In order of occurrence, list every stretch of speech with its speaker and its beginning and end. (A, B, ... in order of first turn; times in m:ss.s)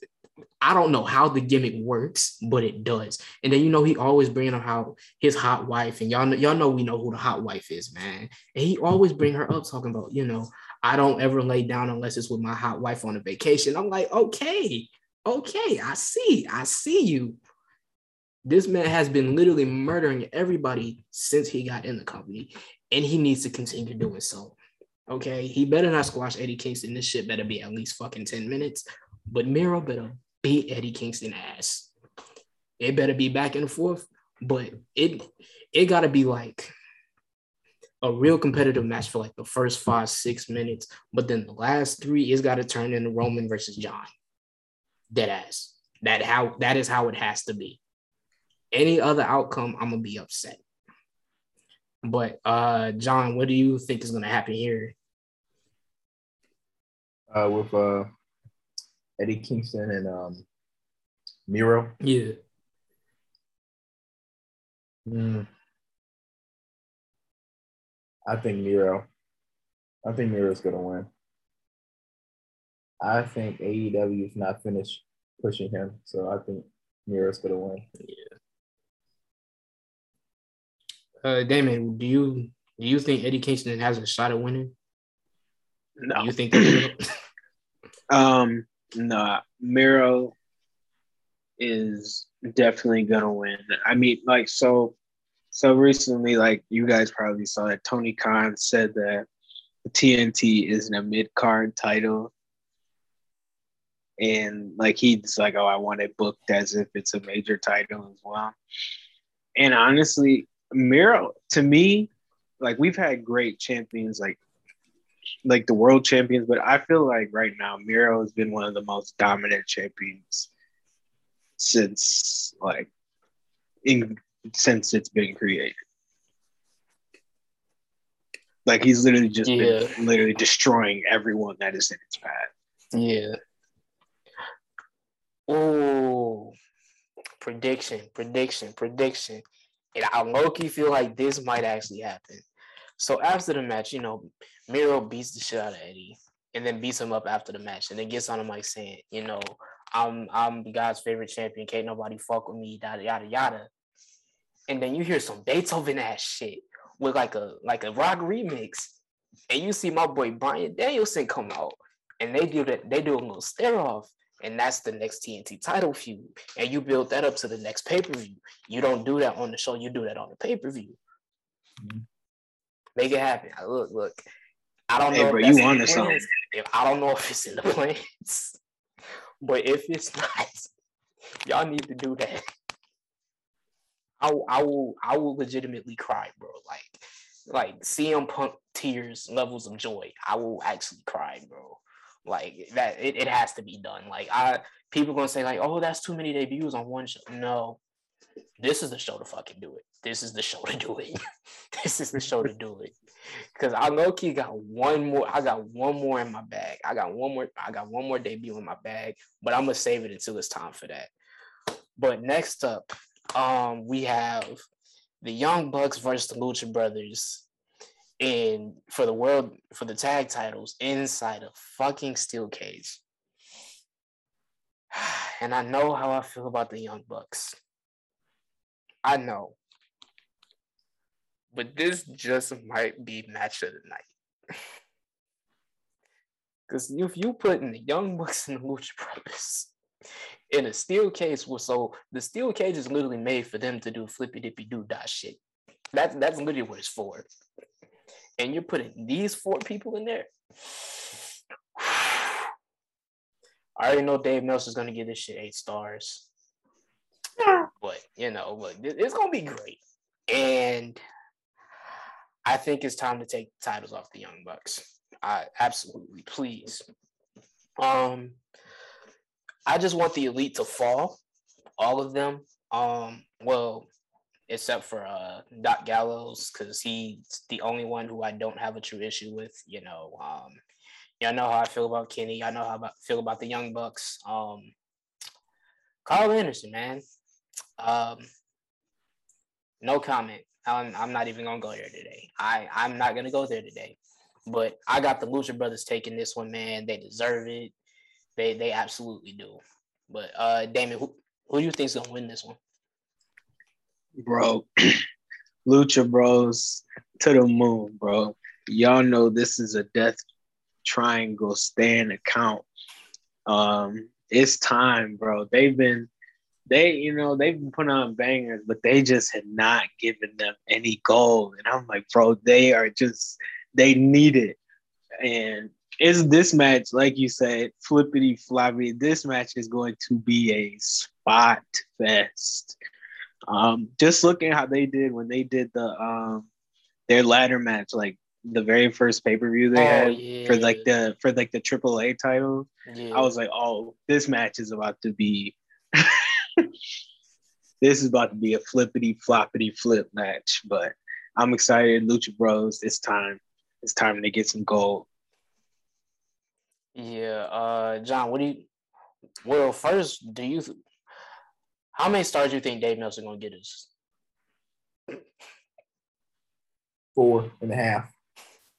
0:00.6-0:17.4 A
0:18.4-0:24.6 A
0:25.1-0:31.9 A
0:32.8-0:35.2 A
0:35.7-0:36.7 A
0:38.0-0:44.1 A
0:45.1-0:47.8 A
0:48.7-0:50.6 A
0:52.0-0:54.9 A
0:57.3-0:58.1 B
0:59.2-1:00.4 B
1:01.5-1:01.9 B
1:02.0-1:02.3 A
1:05.0-1:05.5 B
1:08.2-1:09.1 B
1:10.0-1:11.1 B
1:13.0-1:17.8 B
1:18.0-1:18.2 A
1:21.2-1:24.7 A
1:26.0-1:26.8 C
1:26.1-1:27.0 A
1:28.1-1:30.3 C
1:31.6-1:35.0 C
1:35.5-1:39.3 C
1:39.8-1:42.3 C
1:44.2-1:48.6 C
1:49.6-1:52.1 C
1:52.6-1:54.4 C
1:55.4-2:00.5 C
2:01.6-2:02.9 C
2:03.8-2:05.7 C
2:08.6-2:12.5 C
2:09.4-2:09.9 A
2:12.9-2:13.3 A
2:15.5-2:16.5 A
2:17.4-2:19.4 A
2:19.9-2:22.4 A
2:23.0-2:33.7 A
2:34.7-2:38.9 A
2:39.5-2:51.0 A
2:53.0-2:54.2 A
2:54.9-2:58.6 A
2:55.1-2:56.3 C
2:59.4-3:00.7 A
3:01.4-3:02.4 A
3:04.2-3:17.8 A
3:18.6-3:21.2 A
3:21.7-3:22.9 A
3:23.5-3:31.1 A
3:32.0-3:34.6 A
3:35.2-3:37.4 A
3:38.2-3:43.0 A
3:44.9-3:47.6 A
3:49.0-3:49.6 A
3:51.5-3:54.1 A
3:56.7-3:59.7 A
4:00.5-4:05.4 A
4:05.9-4:07.3 A
4:08.4-4:10.3 A
4:11.8-4:12.5 A
4:13.8-4:16.3 A
4:17.8-4:21.0 A
4:22.4-4:26.8 A
4:27.8-4:28.4 A
4:29.7-4:31.2 A
4:31.8-4:33.9 A
4:34.5-4:40.6 A
4:41.2-4:44.7 A
4:46.0-4:47.0 A
4:47.8-4:48.3 A
4:49.8-4:57.7 A
4:58.4-5:02.6 A
5:04.2-5:05.0 C
5:05.6-5:10.2 C
5:10.8-5:12.6 C
5:13.5-5:16.1 C
5:16.7-5:24.6 C
5:25.2-5:32.7 C
5:33.5-5:36.5 C
5:37.1-5:46.7 C
5:39.7-5:40.9 A
5:42.8-5:43.3 A
5:47.8-5:55.1 C
5:56.9-5:58.7 A
5:59.4-6:00.8 A
6:01.9-6:03.9 A
6:07.1-6:08.1 B